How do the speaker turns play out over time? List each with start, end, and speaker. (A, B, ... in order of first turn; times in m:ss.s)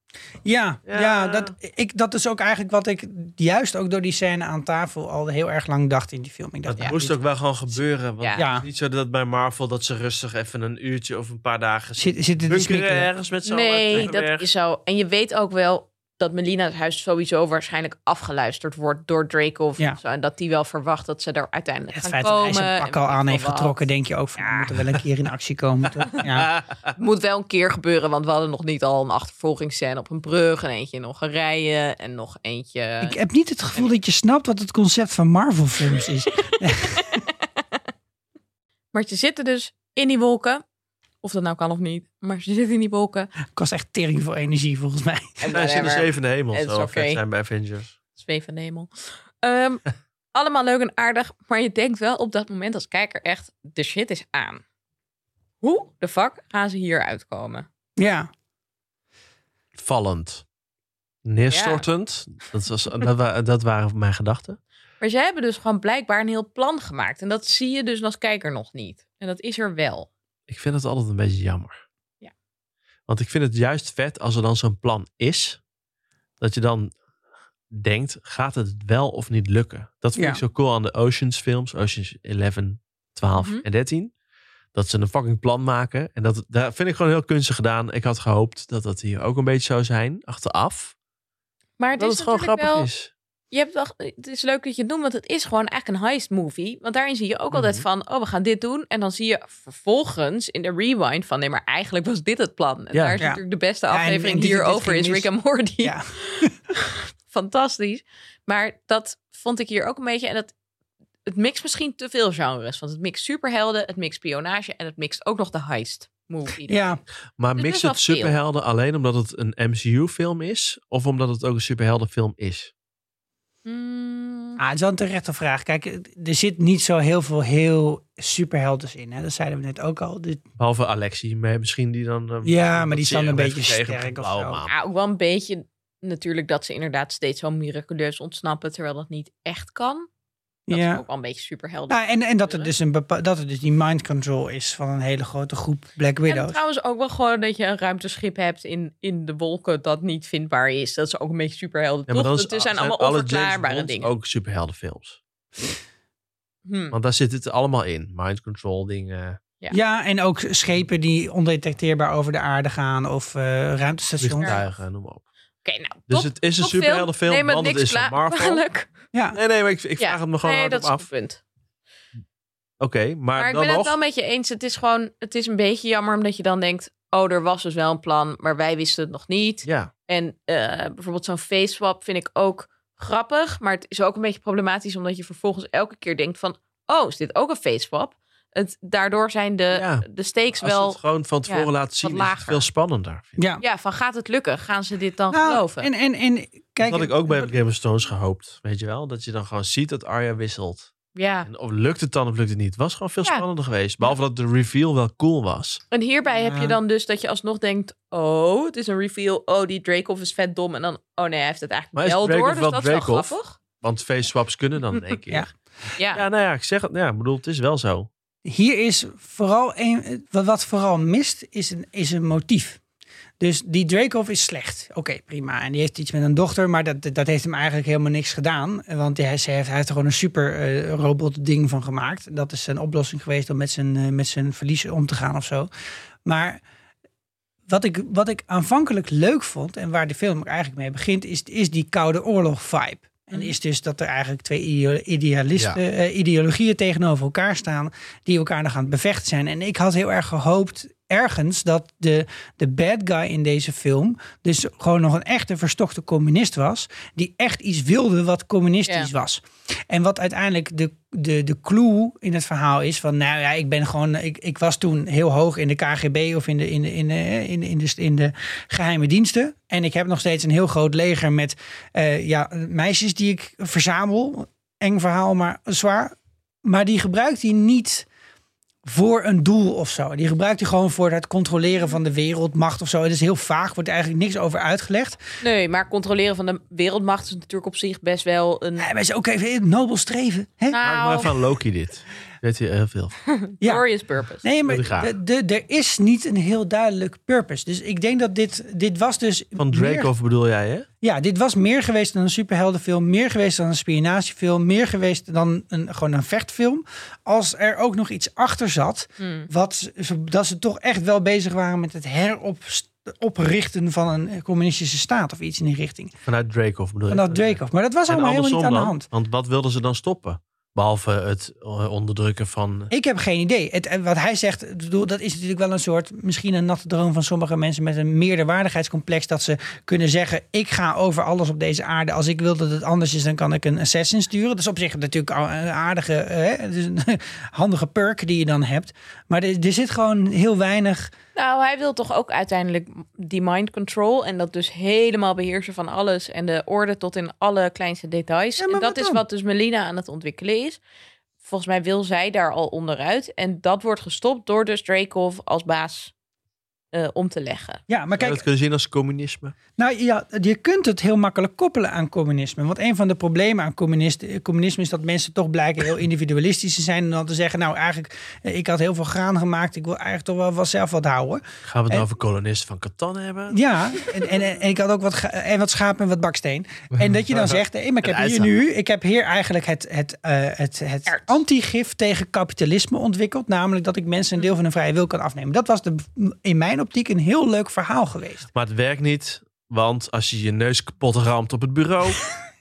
0:00.4-0:07.2 A
0:00.9-0:01.5 B
0:06.7-0:14.5 B
0:08.4-0:08.6 A
0:12.0-0:13.1 A
0:13.4-0:23.8 C
0:21.9-0:26.5 A
0:24.4-0:24.8 C
0:26.9-0:33.2 C
0:33.0-0:37.2 A
0:36.3-0:37.6 C
0:38.9-0:40.6 C
0:41.2-0:43.3 C
0:43.5-0:45.4 A
0:45.4-0:47.2 C
0:45.5-0:48.0 B
0:48.1-0:54.6 C
0:55.6-0:57.7 C
0:58.0-0:58.3 A
0:59.8-1:00.4 B
1:01.2-1:04.6 B
1:01.5-1:01.8 C
1:05.0-1:10.1 C
1:10.5-1:11.8 B
1:13.1-1:15.6 B
1:16.4-1:16.9 B
1:17.7-1:24.1 B
1:20.1-1:20.4 A
1:23.3-1:23.6 C
1:24.7-1:30.9 B
1:31.8-1:32.9 C
1:32.0-1:33.1 B
1:33.5-1:50.5 C
1:37.5-1:37.8 B
1:42.9-1:43.2 B
1:43.2-1:45.3 A
1:45.8-1:46.5 A
1:51.2-1:57.0 C
1:56.7-1:57.0 A
1:57.4-2:02.7 B
1:57.6-1:58.4 C
2:03.6-2:04.6 C
2:04.6-2:10.4 A
2:10.6-2:14.7 B
2:12.4-2:14.6 A
2:14.7-2:20.1 C
2:20.7-2:21.0 A
2:20.7-2:22.7 C
2:21.9-2:26.6 A
2:26.3-2:34.1 C
2:32.1-2:35.2 B
2:36.6-2:37.0 C
2:36.9-2:39.4 B
2:39.7-2:44.6 A
2:44.2-2:45.2 B
2:45.6-2:48.9 C
2:46.1-2:48.6 B
2:49.3-2:51.1 B
2:50.0-2:51.4 C
2:52.8-2:54.0 B
2:53.4-3:12.6 C
2:59.6-2:59.9 B
3:09.7-3:10.0 B
3:10.6-3:13.4 B
3:13.4-3:13.6 A
3:13.6-3:15.9 C
3:15.3-3:17.5 A
3:16.8-3:20.9 B
3:21.1-3:21.5 C
3:21.4-3:25.8 B
3:25.9-3:33.6 C
3:26.3-3:26.8 A
3:31.9-3:35.5 B
3:36.0-3:36.2 C
3:36.1-3:38.1 B
3:38.4-3:42.8 A
3:43.4-3:55.7 A
3:56.2-3:56.6 A
3:57.7-4:38.1 A
4:38.8-4:45.2 A
4:45.4-4:48.9 C
4:48.8-4:50.8 A
4:50.7-4:51.4 C
4:50.8-4:53.2 B
4:53.3-4:54.4 C
4:54.4-5:00.1 A
4:54.6-4:55.1 B
4:59.6-5:00.9 B
5:01.0-5:16.1 A
5:09.2-5:09.5 C
5:16.2-5:22.9 B
5:17.1-5:19.1 A
5:22.9-5:41.1 A
5:41.3-5:50.8 C
5:48.6-5:49.2 A
5:51.4-5:56.1 C
5:56.9-5:57.8 C
5:57.9-5:58.4 A
5:58.2-5:59.5 B
5:59.8-6:12.0 A
6:11.6-6:14.0 B
6:13.5-6:28.5 A
6:17.0-6:18.5 B
6:21.1-6:21.4 C
6:28.5-6:32.2 B